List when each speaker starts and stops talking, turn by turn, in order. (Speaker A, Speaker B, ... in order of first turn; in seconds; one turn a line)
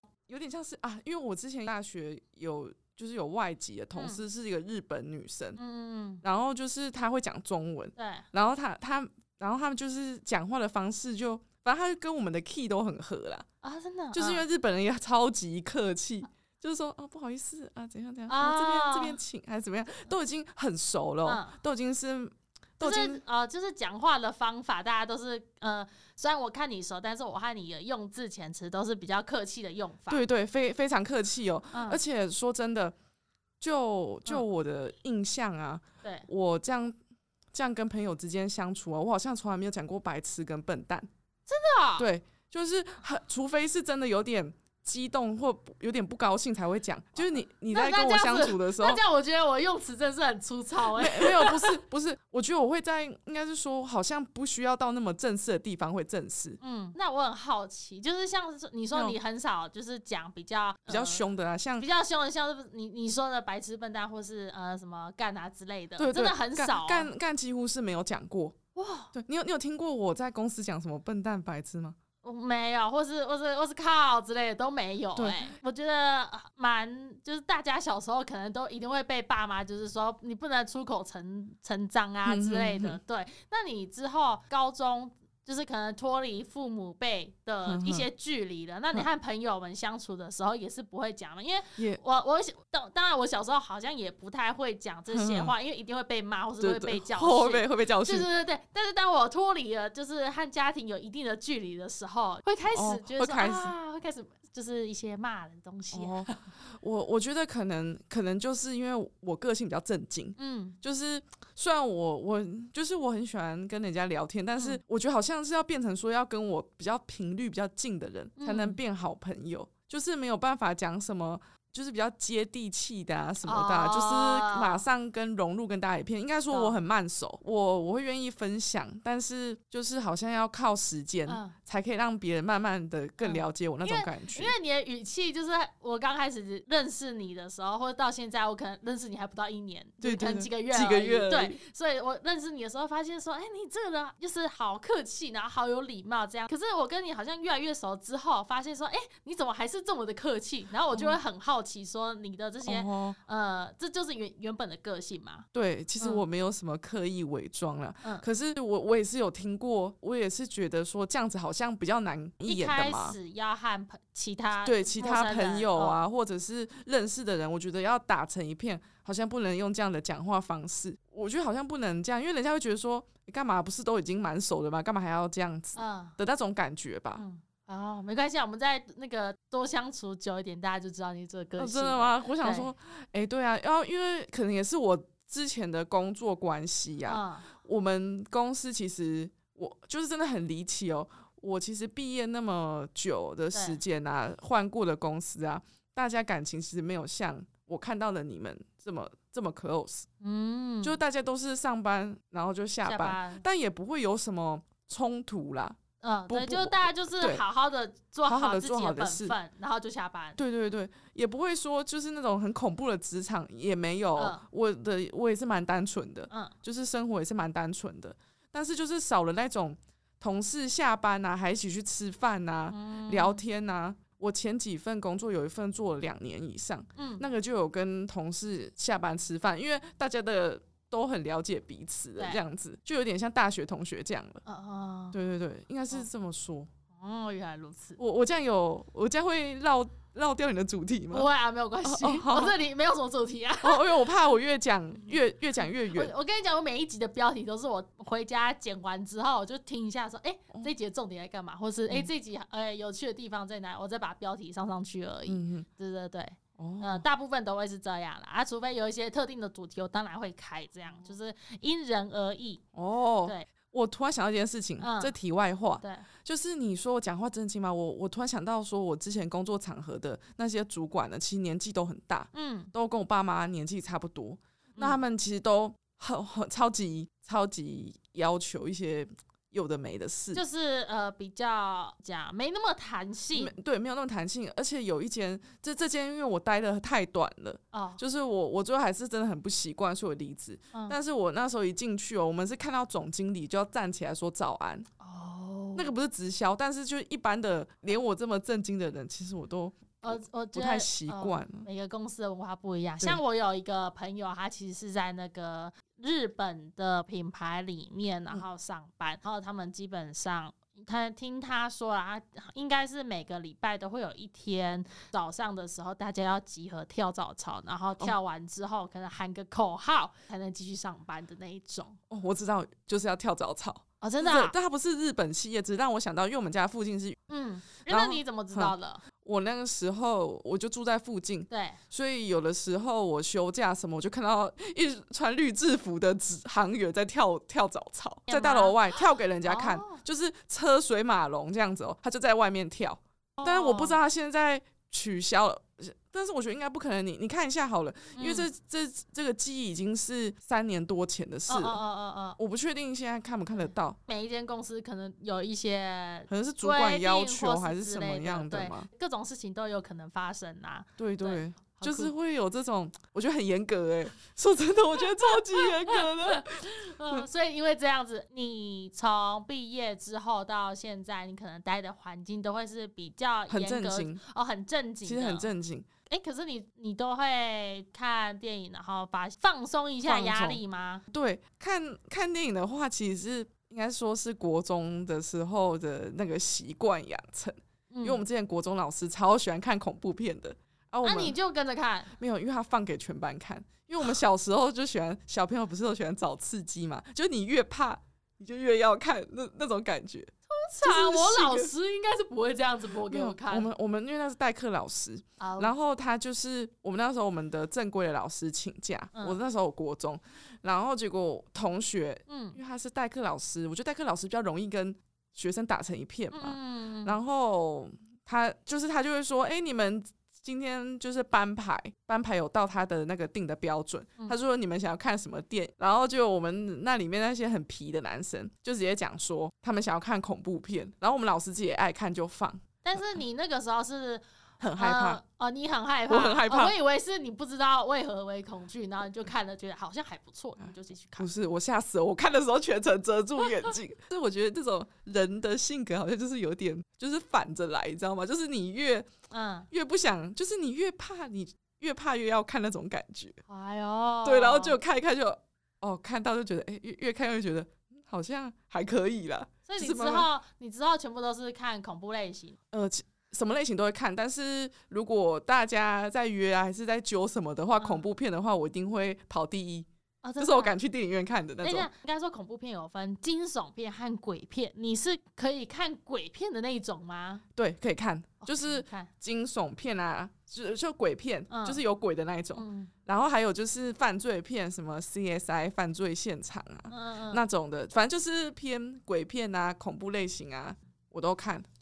Speaker A: 0.3-5.6
Speaker B: 4.0-4.2
Speaker B: 5.5-6.2
Speaker A: 6.2-13.4
Speaker B: 8.0-8.2
Speaker B: 13.6-14.4
Speaker A: 14.1-23.2
Speaker B: 18.3-19.2
Speaker B: 21.2-21.6
Speaker B: 22.8-30.2
Speaker A: 30.1-32.9
Speaker B: 31.7-32.0
Speaker A: 33.6-36.9
Speaker A: 37.5-41.1
Speaker B: 41.5-42.1
Speaker A: 42.0-49.0
Speaker B: 47.7-51.7
Speaker A: 50.8-56.6
Speaker B: 56.6-61.2
Speaker A: 58.9-59.2
Speaker A: 60.9-61.9
Speaker B: 61.8-67.1
Speaker A: 66.0-68.6
Speaker B: 68.7-69.1
Speaker A: 69.1-72.0
Speaker B: 72.2-106.4
Speaker A: 75.2-75.5
Speaker A: 82.2-83.0
Speaker A: 87.7-88.0
Speaker A: 95.1-95.5
Speaker A: 96.6-98.3
Speaker A: 102.7-103.7
Speaker A: 105.9-134.5
Speaker B: 110.4-110.8
Speaker B: 118.4-118.8
Speaker B: 123.4-124.8
Speaker B: 126.5-126.8
Speaker B: 131.3-131.5
Speaker B: 133.2-155.4
Speaker A: 140.0-141.6
Speaker A: 150.9-151.2
Speaker A: 152.6-153.2
Speaker A: 155.5-163.2
Speaker B: 162.4-166.0
Speaker A: 164.6-177.2
Speaker B: 175.7-176.2
Speaker B: 177.2-182.7
Speaker A: 181.6-200.1
Speaker B: 187.1-187.5
Speaker B: 193.5-193.8
Speaker B: 200.2-201.0
Speaker A: 200.8-207.4
Speaker B: 202.8-203.4
Speaker B: 206.0-210.4
Speaker A: 208.2-209.3
Speaker A: 210.4-234.4
Speaker B: 214.2-214.4
Speaker B: 216.3-216.5
Speaker B: 222.7-223.4
Speaker B: 226.9-227.2
Speaker B: 234.4-235.2
Speaker A: 235.1-236.7
Speaker B: 237.0-238.0
Speaker A: 238.0-241.3
Speaker B: 241.1-243.9
Speaker A: 241.8-242.6
Speaker A: 243.6-246.1
Speaker B: 245.9-262.6
Speaker A: 255.3-255.7
Speaker A: 256.6-257.0
Speaker A: 262.7-280.4
Speaker B: 264.8-265.1
Speaker B: 265.8-266.1
Speaker B: 272.3-272.7
Speaker B: 280.3-283.5
Speaker A: 283.3-294.9
Speaker B: 287.7-288.0
Speaker B: 295.0-295.9
Speaker A: 295.7-301.7
Speaker B: 300.0-322.0
Speaker A: 322.1-327.2
Speaker B: 324.0-324.5
Speaker B: 327.3-329.0
Speaker A: 327.9-351.8
Speaker B: 331.5-331.8
Speaker B: 338.3-338.8
Speaker B: 339.4-340.0
Speaker B: 343.4-344.0
Speaker B: 348.1-348.5
Speaker B: 351.5-352.4
Speaker A: 352.4-354.0
Speaker B: 354.1-362.1
Speaker A: 356.3-358.9
Speaker A: 361.0-367.3
Speaker B: 365.9-375.5
Speaker A: 373.5-374.2
Speaker A: 375.0-375.9
Speaker B: 376.1-381.0
Speaker A: 380.0-391.4
Speaker B: 387.9-388.2
Speaker B: 391.0-392.1
Speaker A: 392.2-401.7
Speaker B: 400.5-403.7
Speaker A: 403.1-433.2
Speaker B: 405.4-405.7
Speaker B: 412.3-412.6
Speaker B: 416.3-417.2
Speaker B: 432.8-434.2
Speaker A: 434.6-435.2
Speaker B: 434.8-441.3
Speaker A: 436.1-436.7
Speaker A: 441.2-449.1
Speaker B: 449.3-449.7
Speaker A: 449.7-453.4
Speaker B: 453.5-454.8
Speaker A: 454.2-460.3
Speaker B: 459.7-462.6
Speaker A: 462.7-469.9
Speaker B: 467.8-468.1
Speaker B: 470.2-470.8
Speaker A: 470.4-471.9
Speaker B: 471.6-477.4
Speaker A: 477.6-491.6
Speaker B: 478.4-479.1
Speaker B: 481.5-481.8
Speaker B: 482.6-482.9
Speaker B: 486.9-487.4